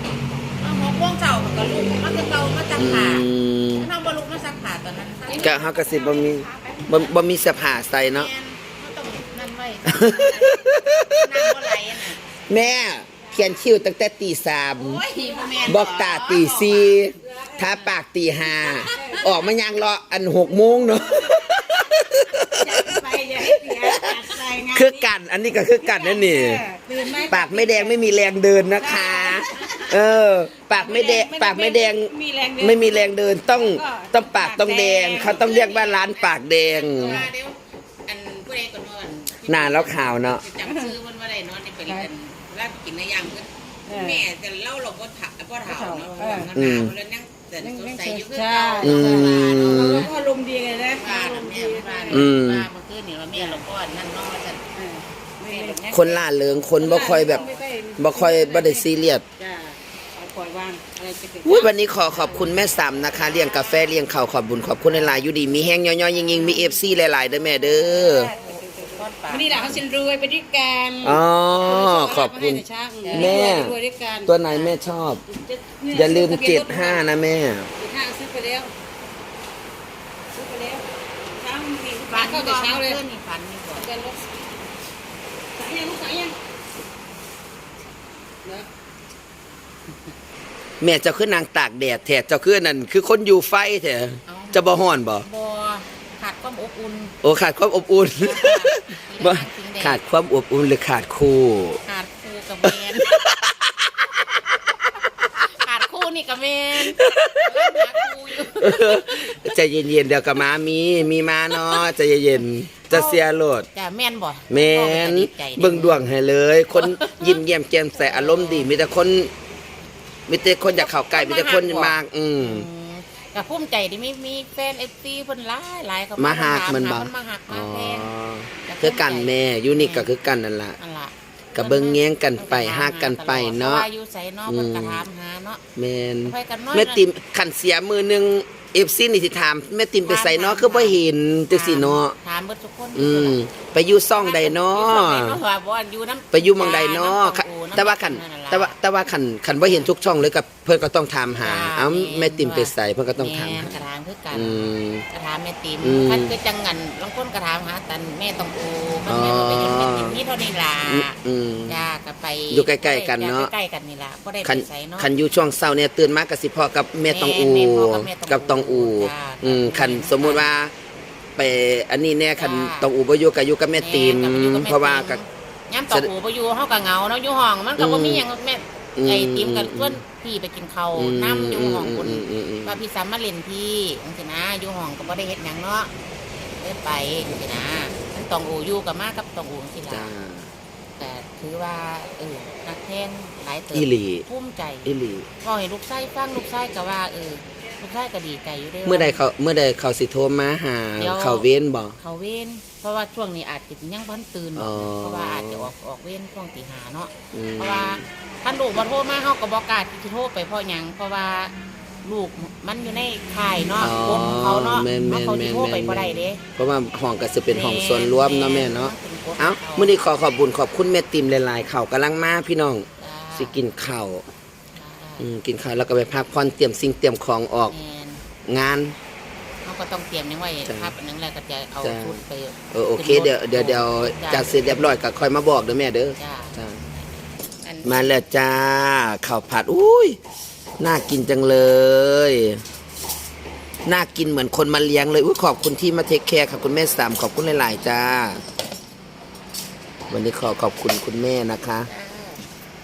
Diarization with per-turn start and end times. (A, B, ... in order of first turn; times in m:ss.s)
0:00.6-0:07.2 A
0:02.7-0:03.9 B
0:05.3-0:08.3 B
0:07.9-0:12.2 A
0:09.9-0:11.4 B
0:12.5-0:15.0 B
0:14.8-0:17.1 A
0:15.2-0:15.6 C
0:15.6-0:23.0 B
0:18.6-0:19.2 A
0:18.9-0:19.5 C
0:21.3-0:21.6 C
0:22.5-0:25.1 C
0:23.6-0:26.6 B
0:24.0-0:24.3 A
0:25.8-0:28.0 C
0:27.2-0:37.3 B
0:28.8-0:29.9 C
0:29.2-0:29.9 A
0:30.7-0:35.4 C
0:35.1-0:50.1 A
0:37.0-0:37.3 C
0:39.5-0:40.4 B
0:40.6-0:40.9 C
0:43.9-0:44.2 C
0:45.7-0:46.6 C
0:46.5-0:46.9 B
0:47.6-0:52.3 C
0:48.8-0:50.1 B
0:51.0-0:54.6 A
0:52.1-0:52.6 B
0:53.3-0:53.6 C
0:54.7-0:55.9 C
0:55.4-0:57.8 A
0:55.9-0:59.2 B
0:56.8-1:01.7 C
1:01.4-1:08.3 B
1:01.9-1:02.5 A
1:03.1-1:04.0 A
1:04.8-1:09.8 A
1:08.2-1:14.3 C
1:11.0-1:15.2 B
1:13.0-1:13.6 A
1:15.2-1:17.0 C
1:15.9-1:17.7 B
1:17.8-1:18.7 C
1:20.3-1:23.0 C
1:22.1-1:23.9 A
1:23.8-1:24.2 C
1:25.5-1:26.4 C
1:30.8-1:35.2 B
1:34.3-1:37.2 A
1:37.2-1:41.8 B
1:38.2-1:40.0 A
1:41.8-1:43.2 A
1:42.6-1:44.4 B
1:45.2-1:49.4 A
1:46.8-1:47.8 B
1:48.4-1:53.7 B
1:51.5-1:51.8 A
1:52.9-1:53.2 A
1:53.7-1:56.0 A
1:54.5-1:59.3 B
1:56.7-1:57.4 A
1:57.9-1:58.7 A
2:00.3-2:02.6 B
2:00.7-2:08.1 A
2:06.2-2:10.8 B
2:08.6-2:10.1 A
2:10.8-2:15.6 A
2:11.5-2:13.9 B
2:14.5-2:15.0 B
2:15.8-2:22.2 B
2:16.2-2:17.0 A
2:20.0-2:23.4 A
2:22.9-2:25.4 B
2:24.1-2:28.8 A
2:26.3-2:33.8 B
2:29.6-2:29.9 A
2:31.3-2:45.1 A
2:34.3-2:35.0 B
2:35.8-2:36.3 B
2:39.1-2:40.2 B
2:40.8-2:41.8 B
2:42.5-2:43.5 B
2:44.4-2:50.7 B
2:47.0-2:50.5 A
2:51.4-2:55.2 B
2:52.4-2:52.9 A
2:53.8-3:05.9 A
2:57.8-2:58.2 B
2:59.0-3:00.0 B
3:01.0-3:02.8 B
3:06.6-3:10.1 A
3:09.9-3:10.5 B
3:11.0-3:19.2 A
3:13.7-3:14.2 B
3:14.8-3:15.3 B
3:18.8-3:22.0 B
3:21.0-3:31.5 A
3:24.6-3:25.7 B
3:27.3-3:28.0 B
3:32.0-3:36.4 A
3:33.8-3:44.2 B
3:37.5-3:40.0 A
3:43.0-3:43.6 A
3:44.7-3:45.3 A
3:45.2-3:47.7 B
3:47.7-3:48.2 A
3:48.4-3:48.9 B
3:49.6-3:55.0 A
3:51.8-3:52.2 B
3:52.7-3:56.8 B
3:56.2-3:56.6 A
3:57.6-3:58.2 A
3:57.8-4:00.2 B
4:00.8-4:02.6 B
4:03.8-4:08.4 B
4:10.1-4:11.9 B
4:11.8-4:12.4 A